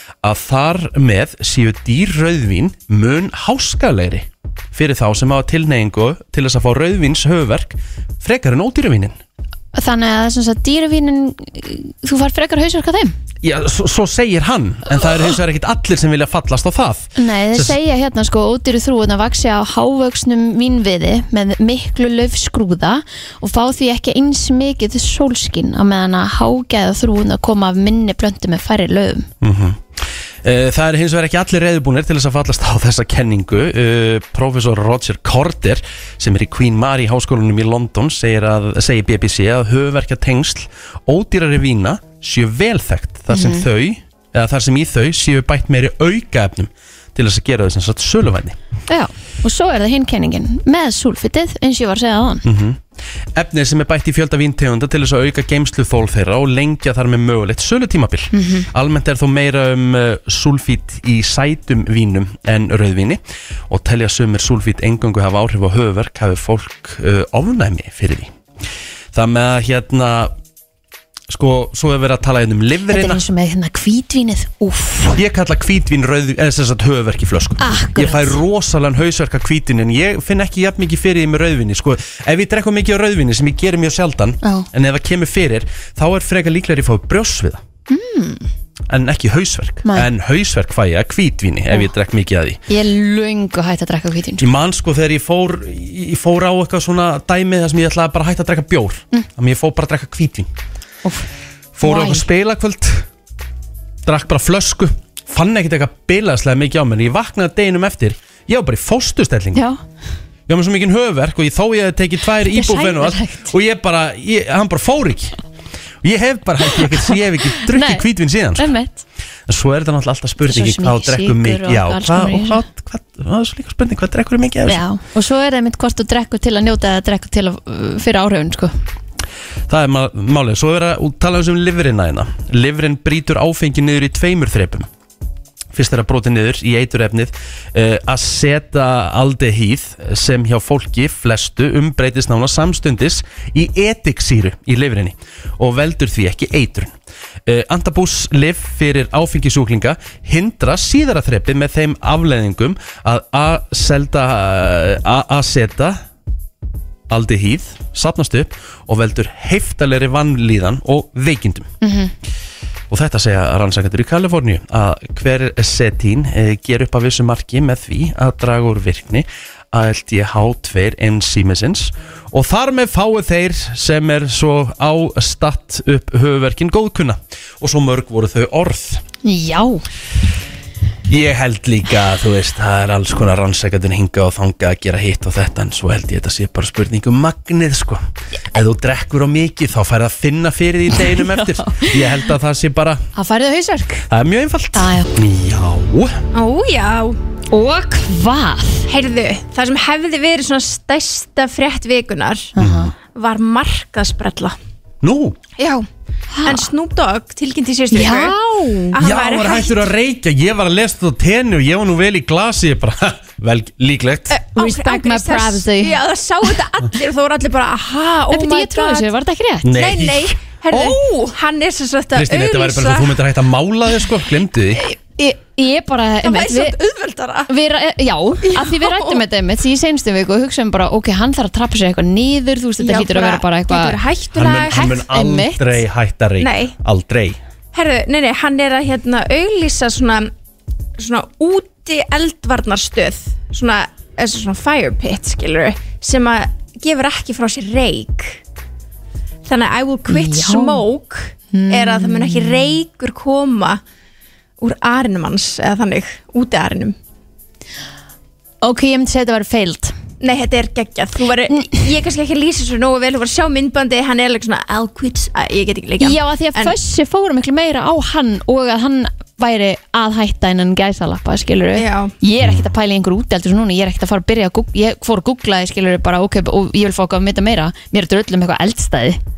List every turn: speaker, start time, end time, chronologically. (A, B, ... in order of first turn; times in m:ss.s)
0:00.2-0:09.2 A
0:09.7-0:13.2 B
0:13.4-0:17.8 A
0:17.2-0:29.3 B
0:29.4-0:48.6 A
0:43.3-0:43.6 B
0:48.9-0:52.4 B
0:52.4-0:52.8 A
0:53.3-1:08.3 A
0:58.3-0:58.7 B
1:09.1-1:10.3 A
1:11.3-1:13.2 A
1:12.9-1:15.2 B
1:15.1-1:27.6 A
1:17.6-1:18.4 B
1:24.4-1:24.7 B
1:27.9-1:28.5 B
1:28.9-1:32.6 A
1:29.8-1:30.1 B
1:32.7-1:34.5 B
1:34.4-1:40.5 A
1:41.8-1:43.0 A
1:41.8-1:42.2 B
1:44.0-1:49.6 A
1:49.5-1:49.8 B
1:50.5-1:55.4 A
1:52.4-1:53.5 B
1:56.0-1:58.7 A
1:56.6-1:59.0 B
1:59.5-2:04.8 A
2:00.4-2:02.6 B
2:04.6-2:08.7 B
2:09.7-2:14.9 A
2:15.7-2:26.9 A
2:27.4-2:36.0 A
2:37.1-2:41.7 A
2:41.8-2:42.1 B
2:42.9-2:59.0 A
2:59.2-2:59.8 B
3:01.1-3:13.0 A
3:10.9-3:12.2 B
3:13.1-3:14.1 B
3:14.1-3:16.2 A
3:14.7-3:15.1 B
3:16.3-3:17.2 C
3:17.5-3:18.9 B
3:18.9-3:22.5 C
3:22.5-3:22.9 B
3:22.6-3:22.9 A
3:23.0-3:24.6 C
3:25.0-3:25.4 A
3:25.6-3:25.8 C
3:26.3-3:26.7 B
3:26.4-3:28.4 C
3:27.9-3:29.0 B
3:28.9-3:29.9 C
3:29.0-3:34.4 A
3:34.3-3:39.1 C
3:34.5-3:36.0 B
3:38.3-3:39.8 B
3:39.6-3:41.0 A
3:39.7-3:43.2 C
3:42.1-3:44.8 A
3:44.8-3:46.8 B
3:46.2-3:47.5 C
3:47.5-3:54.0 B
3:48.4-3:49.2 C
3:52.8-3:54.9 C
3:54.3-3:57.4 A
3:54.7-3:55.8 B
3:56.4-3:56.7 C
3:57.7-4:00.3 C
4:01.0-4:08.4 C
4:09.4-4:13.8 C
4:10.1-4:10.8 B
4:11.5-4:12.7 B
4:14.6-4:17.0 C
4:18.6-4:20.0 B
4:20.2-4:26.7 C
4:26.0-4:39.2 B
4:31.7-4:32.1 C
4:32.4-4:32.7 A